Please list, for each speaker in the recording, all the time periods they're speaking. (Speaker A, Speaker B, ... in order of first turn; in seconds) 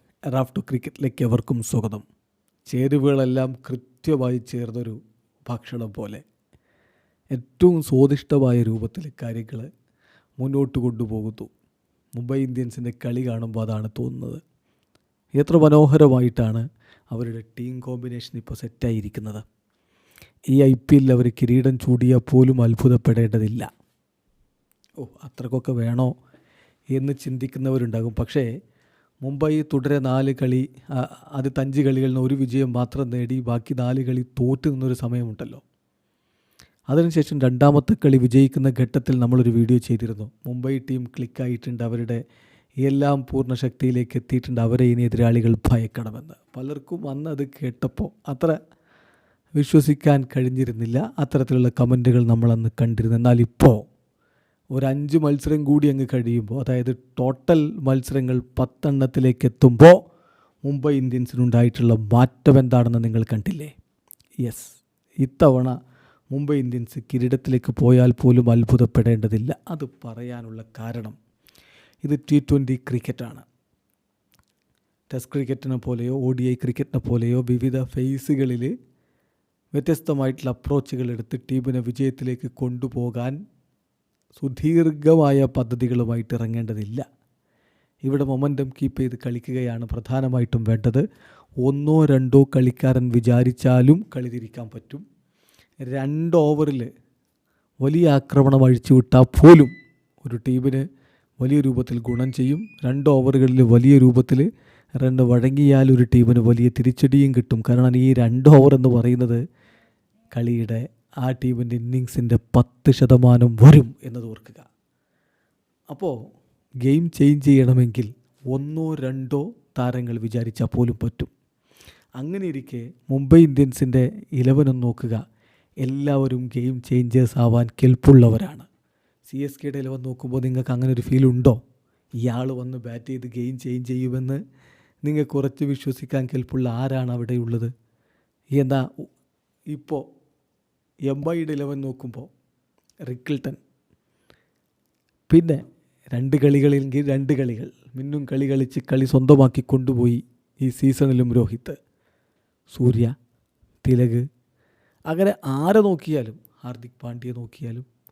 Speaker A: 0.3-2.0, 2.7-6.2, 7.3-9.7, 10.4-11.5, 12.2-14.4, 15.4-19.4, 20.5-23.7, 25.0-26.1, 26.9-28.5, 29.2-35.6, 36.9-42.2, 42.8-48.6, 49.6-53.8, 54.8-60.0, 60.6-63.7, 64.4-65.8, 66.3-71.2, 72.0-73.5, 75.1-78.7, 79.8-83.4, 84.4-87.0, 88.0-91.0, 91.6-95.0, 95.9-96.9, 97.8-99.7, 100.2-100.8, 101.4-104.5, 105.0-109.4, 110.3-114.7, 116.8-121.3, 122.2-125.2, 125.8-128.7, 129.3-131.6, 132.2-134.4, 135.0-137.7, 138.6-139.1, 139.7-140.0, 141.1-142.3, 143.1-143.6, 145.3-145.6, 146.1-151.8, 152.7-153.1, 153.8-154.2, 155.1-157.8